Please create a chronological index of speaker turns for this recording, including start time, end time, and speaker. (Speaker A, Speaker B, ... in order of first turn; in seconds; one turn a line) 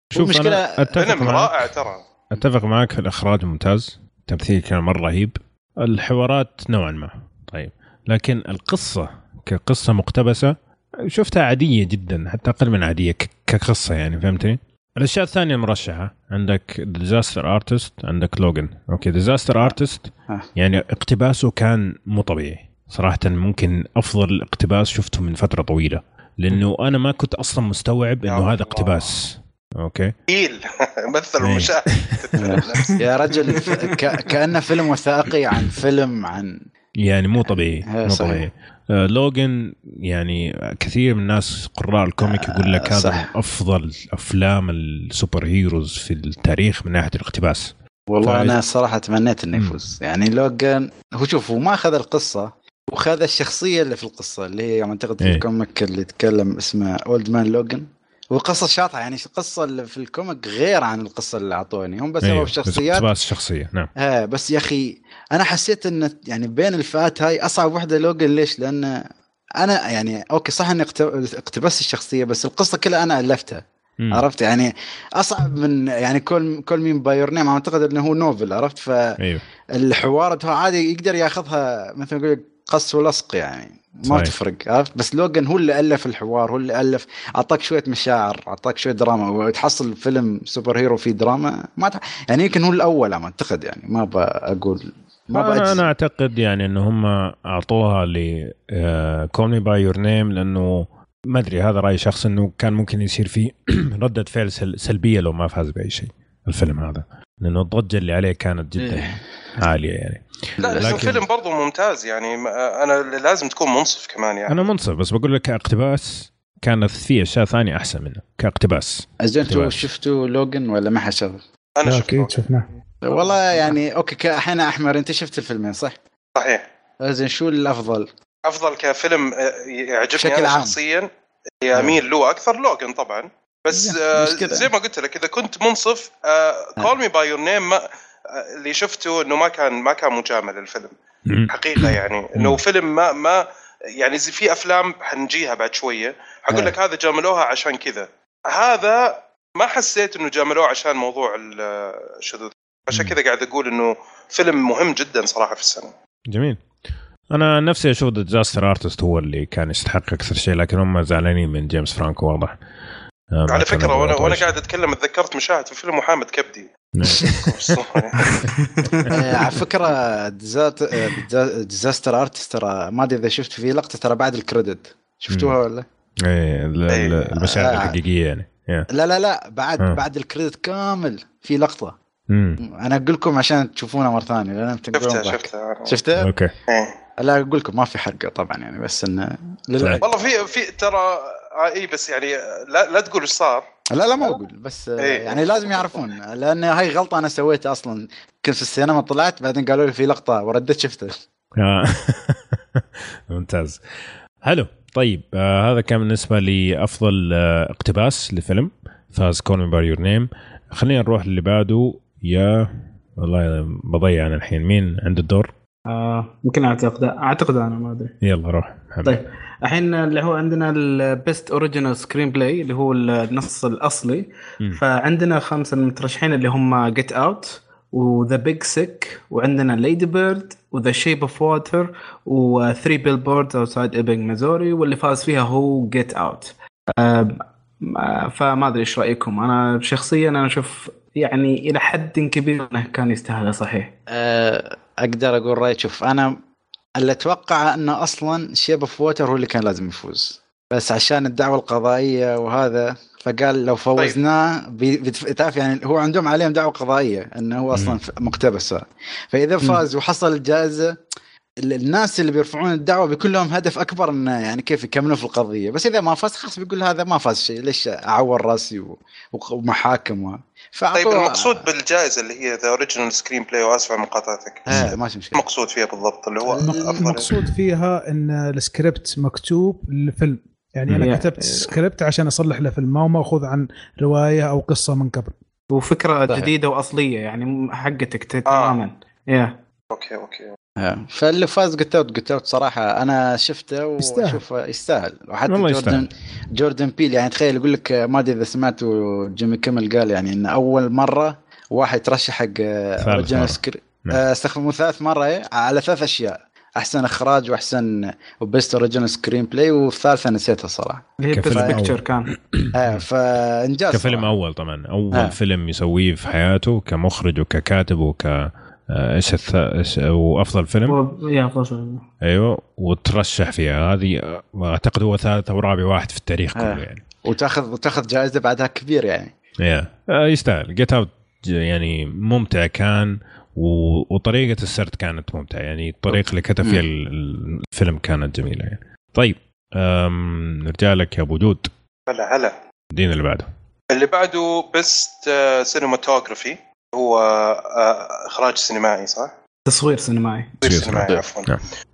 Speaker A: 0.1-1.1
Speaker B: 0.1-1.7
Speaker C: 0.9-2.0
Speaker B: 2.3-30.1
Speaker C: 28.2-29.1
Speaker C: 30.3-33.0
Speaker B: 31.4-32.2
Speaker A: 32.4-36.6
Speaker B: 37.0-48.6
Speaker A: 37.9-38.5
Speaker A: 42.2-43.3
Speaker A: 48.1-63.1
Speaker B: 62.2-63.9
Speaker A: 64.0-79.2
Speaker A: 79.8-95.8
Speaker B: 84.0-84.3
Speaker B: 95.3-111.2
Speaker A: 108.8-109.2
Speaker C: 110.6-114.7
Speaker A: 110.6-111.2
Speaker B: 114.5-119.8
Speaker A: 119.2-121.4
Speaker C: 121.8-122.4
Speaker D: 121.8-122.7
Speaker A: 123.0-126.0
Speaker C: 123.2-123.6
Speaker C: 126.3-126.6
Speaker A: 127.0-128.1
Speaker C: 128.4-131.1
Speaker A: 130.2-130.8
Speaker C: 131.6-140.9
Speaker A: 133.7-134.7
Speaker B: 141.3-142.6
Speaker C: 141.5-143.4
Speaker C: 144.0-155.9
Speaker B: 156.3-156.6
Speaker B: 157.3-162.5
Speaker B: 163.3-164.5
Speaker C: 163.5-168.4
Speaker B: 166.9-168.4
Speaker E: 168.5-169.2
Speaker A: 169.1-175.8
Speaker B: 175.3-175.5
Speaker B: 176.2-178.9
Speaker C: 176.9-177.2
Speaker A: 177.3-177.9
Speaker A: 178.9-181.9
Speaker B: 182.3-182.6
Speaker A: 182.6-186.3
Speaker C: 184.9-185.9
Speaker B: 186.2-186.5
Speaker C: 186.7-186.9
Speaker A: 187.2-190.1
Speaker C: 190.0-193.7
Speaker A: 193.9-201.2
Speaker C: 195.0-195.9
Speaker B: 201.6-203.8
Speaker B: 204.4-215.5
Speaker E: 215.9-218.1
Speaker B: 218.2-219.2
Speaker E: 219.0-243.9
Speaker A: 244.1-246.4
Speaker A: 247.0-261.0
Speaker B: 257.7-258.0
Speaker A: 261.6-271.6
Speaker C: 270.9-277.3
Speaker A: 274.7-275.4
Speaker A: 276.5-277.1
Speaker D: 277.0-285.3
Speaker E: 281.0-281.7
Speaker E: 285.7-289.6
Speaker C: 288.4-288.8
Speaker C: 289.9-290.5
Speaker A: 290.8-311.8
Speaker D: 294.0-294.4
Speaker B: 295.5-296.1
Speaker B: 303.0-304.2
Speaker E: 311.2-312.3
Speaker B: 311.3-313.0
Speaker A: 312.7-314.3
Speaker B: 313.9-321.0
Speaker E: 320.9-322.0
Speaker B: 322.2-327.0
Speaker A: 326.5-329.3
Speaker B: 329.6-341.7
Speaker A: 336.1-336.8
Speaker C: 342.1-342.5
Speaker B: 342.9-343.5
Speaker C: 343.9-349.3
Speaker E: 349.7-350.6
Speaker C: 350.6-351.6
Speaker B: 350.6-351.6